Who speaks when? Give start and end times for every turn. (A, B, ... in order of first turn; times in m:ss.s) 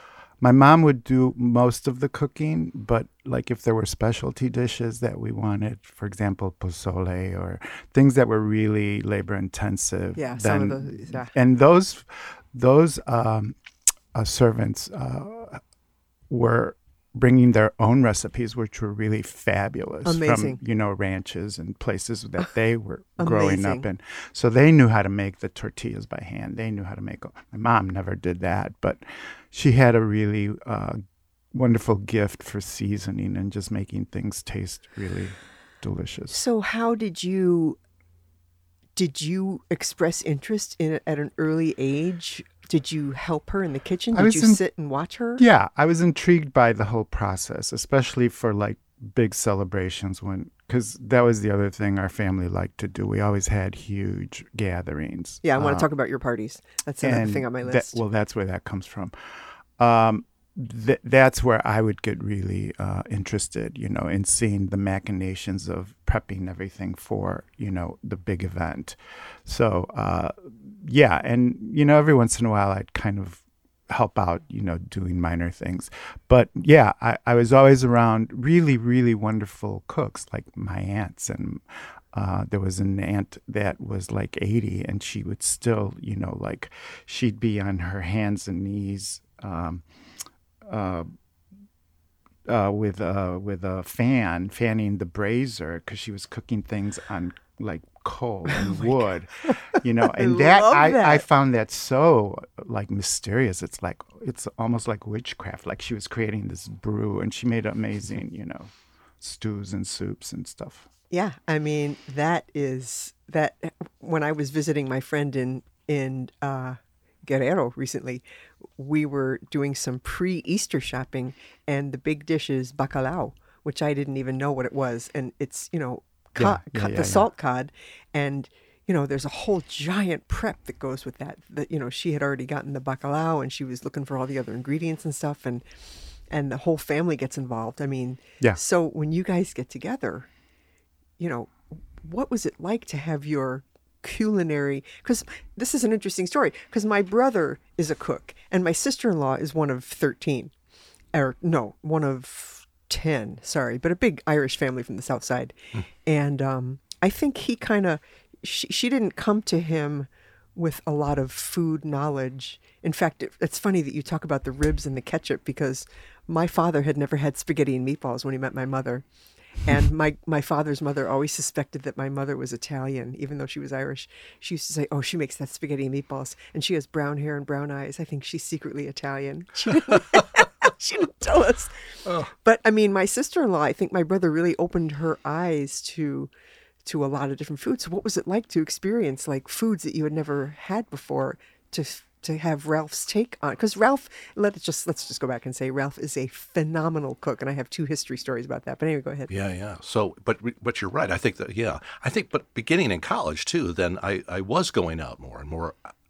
0:00.4-0:13.6 A
0:10.2-0:11.3 B
0:14.1-0:15.6 A
0:16.3-0:31.0 A
0:20.0-0:20.6 B
0:23.2-0:23.9 B
0:31.5-0:36.4 A
0:36.3-0:37.8 B
0:39.0-0:45.4 B
0:44.1-0:44.6 A
0:45.4-0:55.9 A
0:55.4-0:58.0 B
0:57.0-0:59.1 A
0:59.8-1:29.8 A
1:30.7-1:31.1 A
1:32.5-1:50.9 A
1:38.5-1:38.8 B
1:40.0-1:41.2 B
1:51.1-1:58.2 B
1:58.8-2:15.6 B
2:06.4-2:07.3 A
2:16.3-2:20.3 B
2:21.2-2:30.5 B
2:31.1-2:49.0 B
2:49.6-3:06.3 B
3:06.8-3:19.3 B
3:19.3-3:25.8 C